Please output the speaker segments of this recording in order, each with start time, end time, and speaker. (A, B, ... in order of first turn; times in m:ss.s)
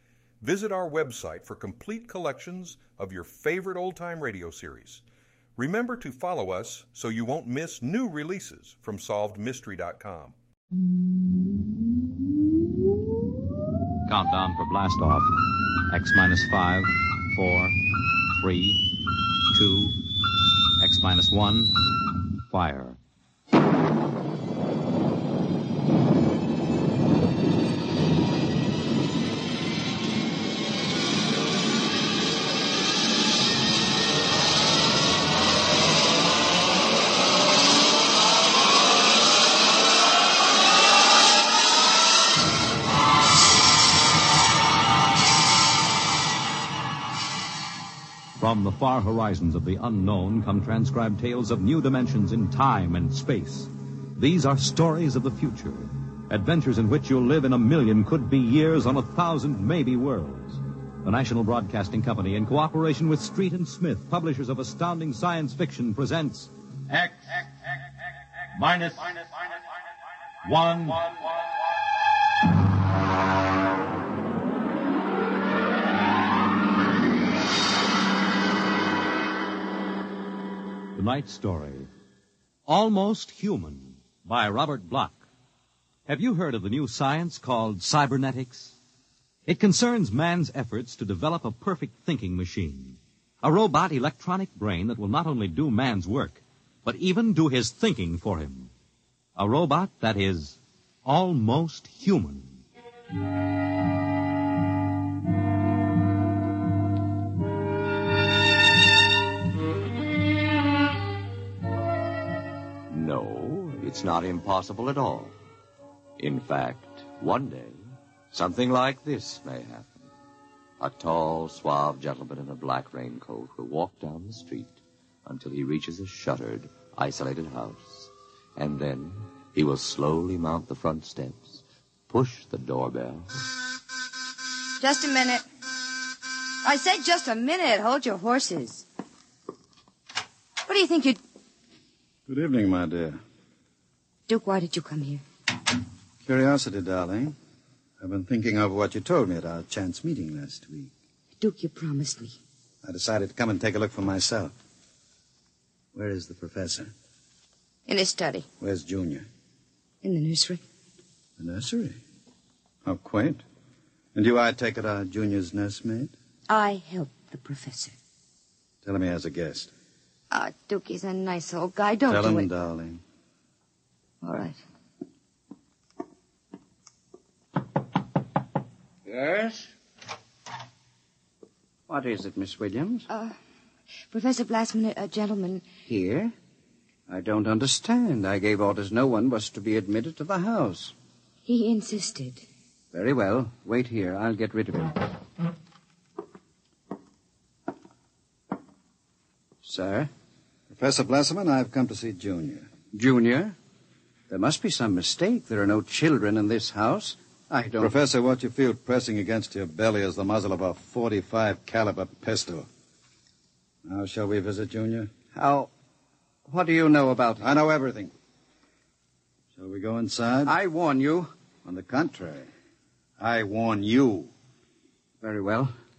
0:00.4-0:05.0 A
0:05.6-0:10.4 A
0:14.1-0:15.3 B
0:15.9-0:17.8 B
0:18.3-0:18.8 B
0:19.5-0:20.0 B
0:20.8-0:21.8 B
0:22.5-0:23.0 B
0:48.4-1:07.4 B
1:08.6-1:09.3 B
1:10.4-1:11.2 B
1:21.0-1:21.9 B
1:22.7-1:25.2 B
1:26.1-1:28.8 B
1:29.5-1:38.7 B
1:39.4-1:42.6 B
1:52.9-1:55.4 C
1:56.2-1:59.9 C
2:00.8-2:13.4 C
2:14.8-2:15.4 D
2:16.6-2:18.9 D
2:20.6-2:21.2 D
2:22.3-2:23.2 E
2:24.3-2:25.2 D
2:26.2-2:27.4 E
2:28.0-2:30.9 E
2:31.4-2:32.4 D
2:32.8-2:34.5 E
2:35.9-2:36.9 E
2:37.9-2:38.5 D
2:38.6-2:39.3 E
2:40.0-2:40.6 D
2:41.4-2:42.0 E
2:42.8-2:43.4 E
2:44.1-2:46.1 E
2:46.5-2:48.0 D
2:48.8-2:49.7 E
2:50.3-2:52.5 D
2:52.1-2:53.0 E
2:54.2-2:54.6 D
2:59.1-2:59.7 F
3:01.9-3:03.1 F
3:03.1-3:03.4 D
3:04.1-3:05.6 D
3:05.8-3:06.3 F
3:07.1-3:10.9 F
3:11.5-3:12.5 D
3:12.9-3:15.0 F
3:19.6-3:20.1 F
3:20.7-3:22.7 E
3:22.9-3:23.6 F
3:24.3-3:27.9 F
3:27.8-3:32.7 E
3:33.8-3:35.1 E
3:35.3-3:35.7 F
3:36.5-3:37.5 F
3:37.4-3:38.1 E
3:39.6-3:40.6 E
3:40.4-3:41.3 F
3:41.6-3:42.5 E
3:43.2-3:44.3 E
3:45.2-3:45.7 F